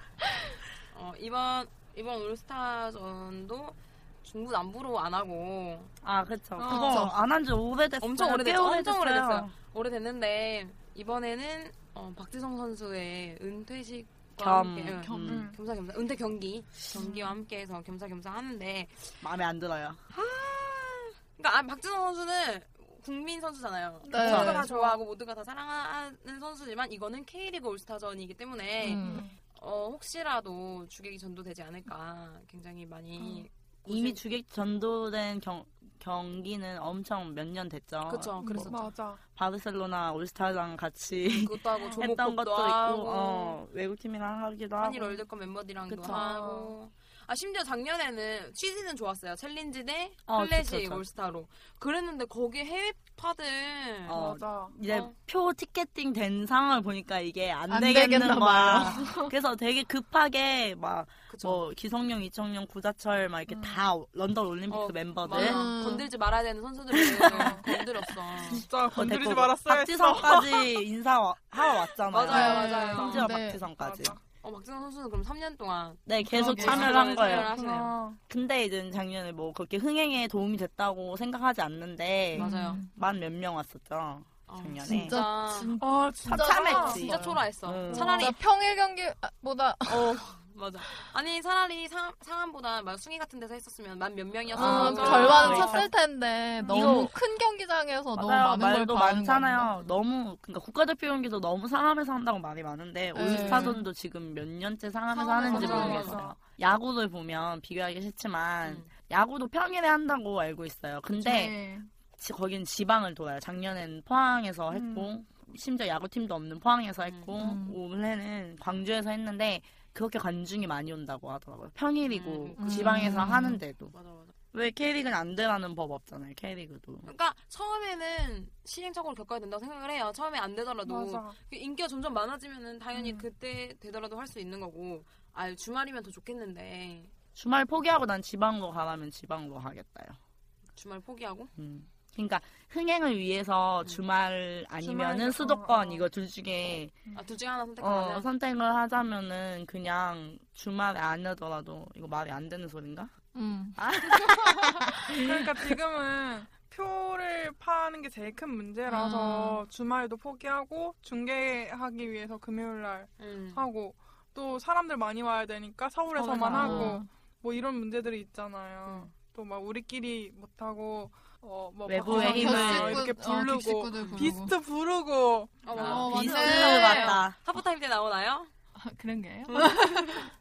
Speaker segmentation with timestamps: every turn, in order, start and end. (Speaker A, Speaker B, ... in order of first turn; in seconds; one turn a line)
Speaker A: 0.9-5.9
Speaker B: 6.0-9.5
Speaker C: 6.6-7.1
Speaker D: 6.7-7.1
Speaker A: 8.0-19.2
Speaker B: 14.4-15.5
Speaker D: 15.0-15.4
Speaker C: 15.3-15.6
Speaker C: 16.9-17.4
Speaker B: 19.2-20.0
Speaker A: 20.1-34.2
Speaker D: 24.1-24.7
Speaker C: 24.1-25.0
Speaker D: 28.8-29.2
Speaker C: 28.9-29.4
Speaker C: 33.2-33.5
Speaker B: 33.9-38.8
Speaker A: 38.1-38.8
Speaker C: 38.4-39.2
Speaker B: 39.4-45.2
Speaker A: 41.2-43.6
Speaker C: 41.8-42.0
Speaker A: 44.8-54.2
Speaker B: 45.9-46.3
Speaker C: 46.1-46.7
Speaker B: 50.3-51.0
Speaker B: 54.1-65.7
Speaker C: 54.1-54.8
Speaker A: 54.9-55.1
Speaker D: 57.7-59.3
Speaker A: 61.3-61.6
Speaker C: 63.5-63.8
Speaker A: 64.7-68.7
Speaker D: 65.3-66.1
Speaker B: 67.0-67.8
Speaker C: 67.3-67.7
Speaker C: 68.4-70.7
Speaker B: 68.5-74.2
Speaker A: 72.1-73.3
Speaker D: 72.3-73.6
Speaker C: 73.0-74.2
Speaker A: 74.4-78.0
Speaker B: 76.1-77.5
Speaker D: 76.2-76.9
Speaker C: 76.6-78.2
Speaker B: 78.3-85.2
Speaker A: 82.3-82.8
Speaker D: 82.3-82.9
Speaker A: 84.5-85.8
Speaker D: 84.8-87.4
Speaker C: 85.8-87.1
Speaker B: 86.3-88.3
Speaker A: 86.5-88.4
Speaker C: 87.9-88.2
Speaker D: 88.0-90.2
Speaker A: 89.9-95.9
Speaker D: 94.5-99.7
Speaker B: 94.6-95.9
Speaker C: 94.6-95.8
Speaker C: 96.6-97.1
Speaker B: 96.7-97.1
Speaker B: 98.2-111.6
Speaker D: 103.1-103.8
Speaker A: 103.3-103.8
Speaker D: 105.4-106.1
Speaker A: 105.4-106.2
Speaker C: 105.4-106.4
Speaker D: 111.2-111.9
Speaker B: 112.2-123.9
Speaker C: 114.7-115.1
Speaker A: 117.0-117.3
Speaker D: 117.4-117.8
Speaker A: 122.0-123.3
Speaker D: 122.6-123.6
Speaker A: 123.9-124.3
Speaker B: 124.5-127.1
Speaker A: 127.0-137.1
Speaker C: 130.8-131.4
Speaker C: 132.9-133.2
Speaker B: 137.4-140.2
Speaker A: 140.8-141.5
Speaker B: 141.6-146.9
Speaker C: 144.8-146.1
Speaker A: 147.1-148.3
Speaker B: 147.8-153.1
Speaker D: 153.3-154.8
Speaker B: 153.8-155.8
Speaker C: 155.2-175.8
Speaker D: 158.9-159.6
Speaker A: 163.2-163.6
Speaker B: 166.3-167.0
Speaker D: 166.5-167.1
Speaker A: 168.8-169.1
Speaker B: 171.9-173.1
Speaker D: 172.1-174.5
Speaker A: 174.0-174.3
Speaker A: 175.6-178.5
Speaker B: 175.8-177.4
Speaker D: 175.8-177.2
Speaker D: 178.8-180.3
Speaker A: 179.5-180.1